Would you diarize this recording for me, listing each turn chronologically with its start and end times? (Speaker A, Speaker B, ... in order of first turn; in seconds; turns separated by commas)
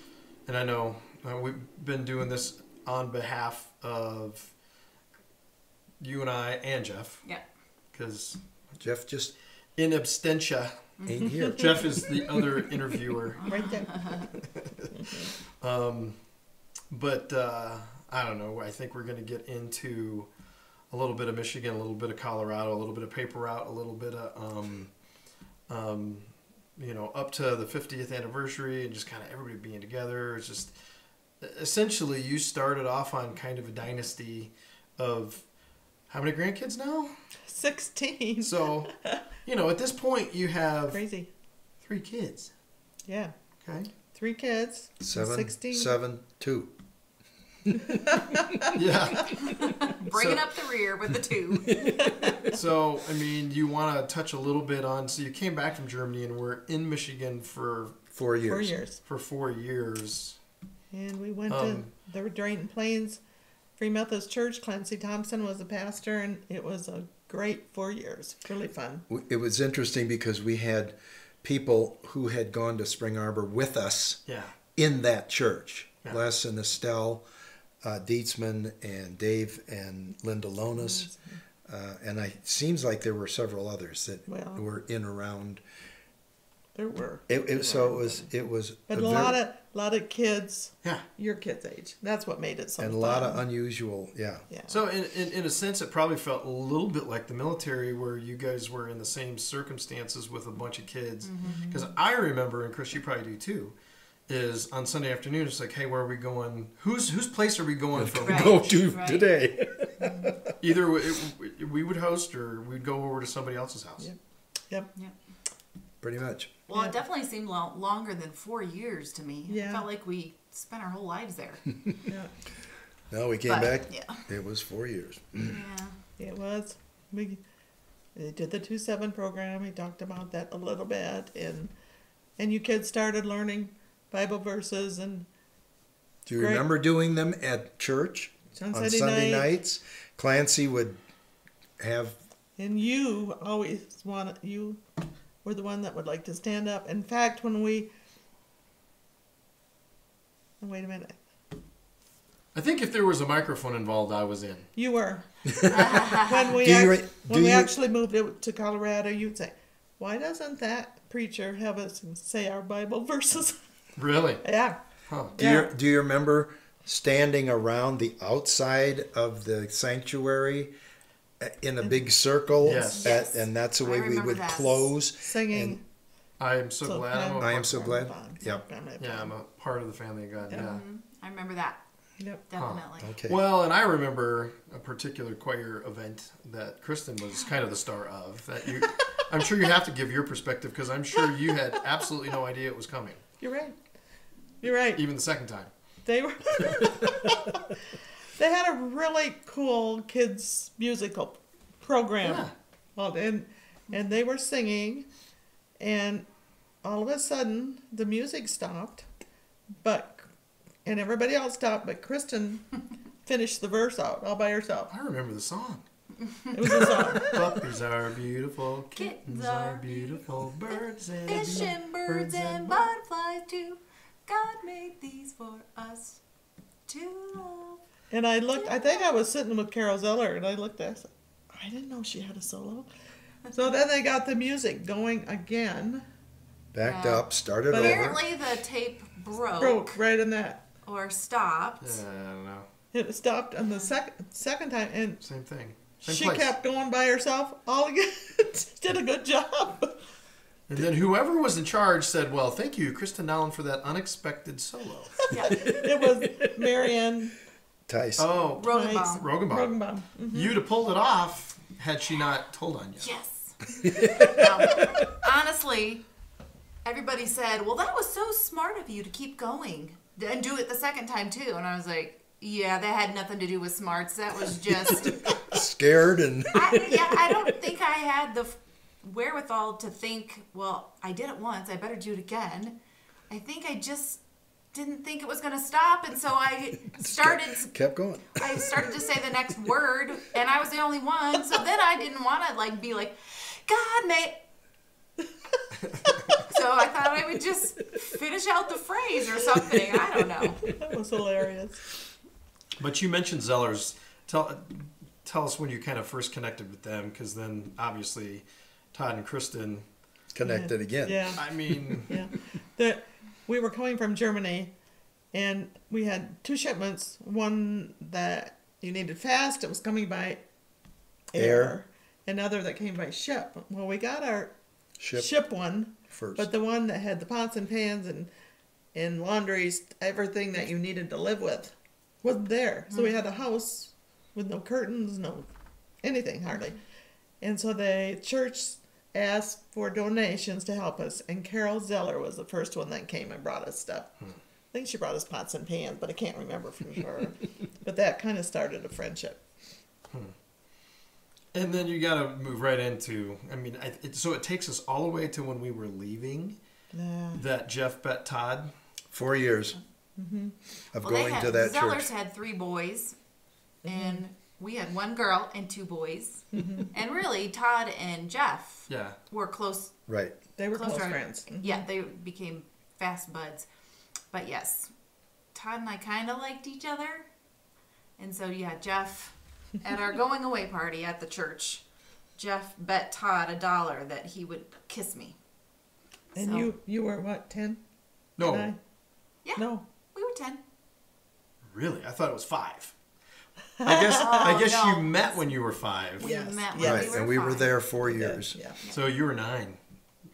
Speaker A: 0.5-4.5, Speaker A: 6.0-7.2, Speaker A: 7.9-8.4, Speaker B: 8.8-9.3, Speaker A: 9.8-13.4, Speaker C: 11.0-11.3, Speaker B: 11.0-11.9, Speaker C: 13.4-14.3, Speaker D: 13.5-14.2, Speaker A: 14.4-16.2, Speaker D: 14.9-15.3, Speaker A: 16.9-20.3, Speaker A: 20.9-25.0, Speaker A: 25.7-30.8, Speaker A: 31.4-35.5, Speaker A: 36.1-37.2, Speaker D: 37.5-39.2, Speaker A: 38.4-41.0, Speaker D: 40.9-41.3, Speaker A: 41.8-42.5, Speaker D: 43.0-43.3, Speaker A: 43.6-43.9, Speaker D: 44.1-45.9, Speaker B: 45.0-46.7, Speaker D: 47.8-48.7, Speaker A: 48.7-50.6, Speaker C: 49.4-51.9, Speaker B: 51.8-52.5, Speaker D: 52.0-52.5, Speaker A: 52.4-58.0, Speaker B: 58.1-58.8, Speaker D: 58.5-59.0, Speaker A: 59.0-60.4, Speaker D: 60.9-63.2, Speaker A: 61.5-61.9, Speaker D: 63.8-69.0, Speaker B: 69.1-74.2, Speaker A: 74.3-74.5, Speaker B: 74.8-77.2, Speaker B: 77.8-81.1, Speaker D: 80.7-81.4, Speaker B: 81.6-85.6, Speaker D: 84.3-84.6, Speaker D: 86.7-88.3, Speaker B: 87.3-89.4, Speaker D: 88.9-93.4, Speaker B: 92.8-94.5, Speaker D: 94.5-94.8, Speaker A: 94.7-103.8, Speaker C: 101.2-101.6, Speaker D: 101.5-101.9, Speaker A: 104.3-108.9, Speaker B: 108.0-110.5, Speaker C: 108.2-109.3, Speaker A: 110.6-114.1, Speaker B: 116.0-116.5, Speaker C: 116.7-121.7, Speaker D: 119.5-119.8, Speaker D: 122.0-122.3, Speaker B: 123.1-125.6, Speaker C: 123.5-124.2, Speaker C: 125.5-126.0, Speaker D: 126.2-127.4, Speaker D: 128.1-131.7, Speaker D: 132.4-135.3, Speaker B: 136.2-141.0, Speaker D: 136.3-136.6, Speaker D: 138.5-139.5, Speaker B: 141.8-142.2, Speaker D: 142.6-144.8, Speaker D: 145.4-147.9, Speaker D: 150.6-151.2, Speaker A: 152.5-154.7, Speaker D: 154.7-163.6, Speaker B: 155.5-156.0, Speaker C: 155.7-156.6, Speaker B: 156.6-157.7, Speaker A: 163.9-164.5, Speaker D: 164.4-164.8, Speaker A: 165.1-165.3, Speaker D: 165.3-165.7, Speaker B: 165.3-170.7, Speaker B: 171.4-175.8, Speaker A: 172.6-173.1, Speaker D: 172.7-172.9, Speaker C: 173.0-174.9, Speaker D: 175.2-175.8, Speaker A: 176.4-177.8, Speaker D: 176.8-179.3, Speaker B: 177.4-178.6, Speaker A: 179.0-180.8, Speaker C: 180.5-181.8, Speaker C: 182.5-183.1, Speaker A: 182.6-193.2, Speaker B: 183.0-183.4, Speaker D: 193.4-193.8, Speaker D: 194.6-195.0, Speaker A: 194.9-195.7, Speaker D: 196.0-197.8, Speaker D: 198.3-205.1, Speaker A: 202.2-202.5, Speaker D: 205.8-206.2, Speaker D: 206.8-209.1, Speaker D: 209.8-210.3, Speaker D: 210.8-212.6, Speaker D: 213.2-214.9, Speaker A: 214.9-215.8, Speaker C: 216.2-216.8, Speaker D: 216.5-217.3, Speaker A: 217.1-222.9, Speaker C: 218.9-226.2, Speaker C: 226.9-227.8, Speaker D: 228.1-232.9, Speaker C: 228.5-229.1, Speaker D: 233.5-236.1, Speaker B: 236.7-238.2, Speaker C: 236.8-240.0, Speaker D: 237.7-238.1, Speaker D: 239.6-240.6, Speaker C: 240.8-242.0, Speaker A: 241.8-242.7, Speaker D: 242.9-245.2, Speaker A: 245.2-246.5, Speaker D: 246.0-250.0, Speaker A: 250.7-255.3, Speaker C: 255.3-255.8, Speaker D: 255.6-257.3, Speaker B: 257.9-258.3, Speaker A: 258.2-263.1, Speaker C: 258.6-259.3, Speaker D: 258.6-260.6, Speaker C: 263.0-266.0, Speaker B: 263.8-265.1, Speaker C: 266.8-275.4, Speaker B: 275.4-277.7, Speaker C: 276.5-282.8, Speaker C: 283.3-284.2, Speaker C: 284.7-287.8, Speaker B: 286.9-288.9, Speaker C: 288.3-294.4, Speaker A: 295.8-296.3, Speaker C: 296.4-300.6, Speaker D: 300.6-301.9, Speaker A: 302.8-309.8, Speaker B: 310.3-312.0, Speaker D: 310.4-311.4, Speaker A: 311.4-312.2, Speaker D: 312.1-314.7, Speaker D: 315.3-320.4, Speaker D: 321.3-324.5, Speaker B: 321.4-321.7, Speaker B: 325.0-325.3, Speaker D: 325.1-328.3, Speaker B: 326.1-326.5, Speaker D: 328.9-335.5, Speaker C: 332.9-333.1, Speaker D: 336.0-336.8, Speaker D: 337.4-344.2, Speaker D: 344.7-349.4, Speaker A: 351.5-356.6, Speaker D: 356.9-357.4, Speaker A: 357.3-358.7, Speaker B: 359.1-359.8, Speaker D: 360.2-360.5, Speaker B: 360.9-362.1, Speaker C: 361.0-363.1, Speaker D: 363.8-364.2, Speaker C: 363.8-369.9, Speaker D: 366.5-366.9, Speaker A: 368.9-369.1, Speaker B: 370.1-370.3, Speaker D: 370.6-371.8, Speaker C: 370.7-373.7, Speaker C: 374.3-374.9, Speaker C: 375.5-377.3, Speaker C: 378.2-381.8, Speaker C: 382.4-385.4, Speaker C: 386.3-386.7, Speaker D: 386.4-387.8, Speaker A: 388.4-388.7, Speaker D: 388.4-388.8, Speaker C: 389.4-390.6, Speaker D: 389.6-389.8, Speaker A: 391.7-392.9, Speaker D: 393.8-394.6, Speaker A: 393.8-396.3, Speaker C: 394.1-395.3, Speaker C: 396.2-397.7, Speaker D: 396.2-397.2, Speaker B: 396.8-398.6, Speaker D: 398.0-398.8, Speaker A: 398.9-399.8